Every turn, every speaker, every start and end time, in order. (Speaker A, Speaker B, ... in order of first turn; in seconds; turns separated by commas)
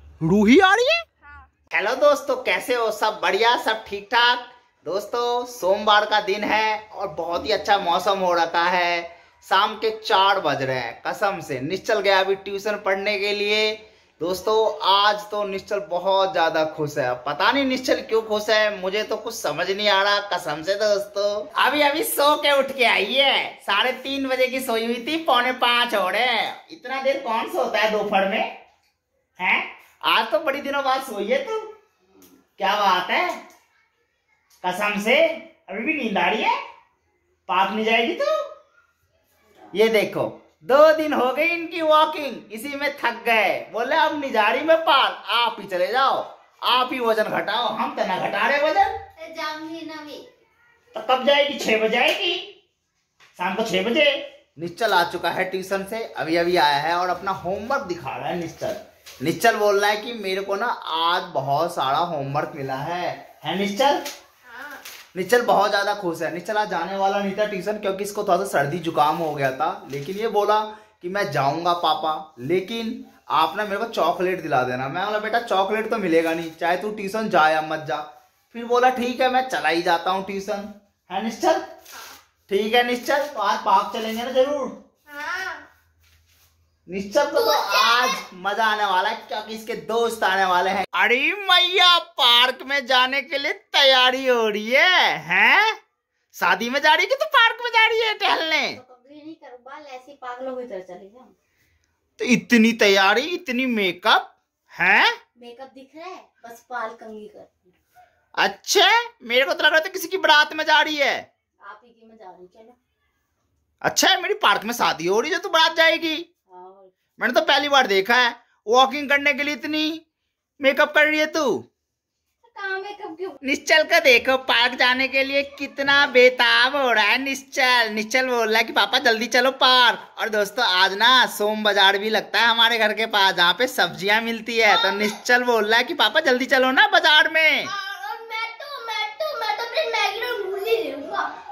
Speaker A: 0.2-1.0, Speaker B: 1.2-1.5, Speaker A: 1.7-28.4, Speaker A: 29.4-31.7, Speaker A: 32.6-33.4, Speaker A: 34.6-36.5, Speaker A: 37.5-38.4, Speaker A: 39.7-48.9, Speaker C: 49.2-50.2, Speaker A: 50.9-52.4, Speaker A: 53.4-64.0, Speaker B: 64.5-64.8, Speaker A: 65.1-81.7, Speaker A: 82.5-84.7, Speaker B: 85.1-85.6, Speaker A: 86.9-95.8, Speaker B: 87.3-88.2, Speaker A: 96.3-98.8, Speaker C: 98.7-101.3, Speaker A: 102.2-105.1, Speaker C: 105.3-107.7, Speaker A: 108.4-111.2, Speaker C: 111.6-112.8, Speaker A: 113.8-116.2, Speaker C: 116.5-116.9, Speaker A: 117.2-120.0, Speaker A: 120.6-121.6, Speaker C: 122.4-123.4, Speaker A: 123.4-137.7, Speaker B: 134.6-135.2, Speaker B: 137.6-141.3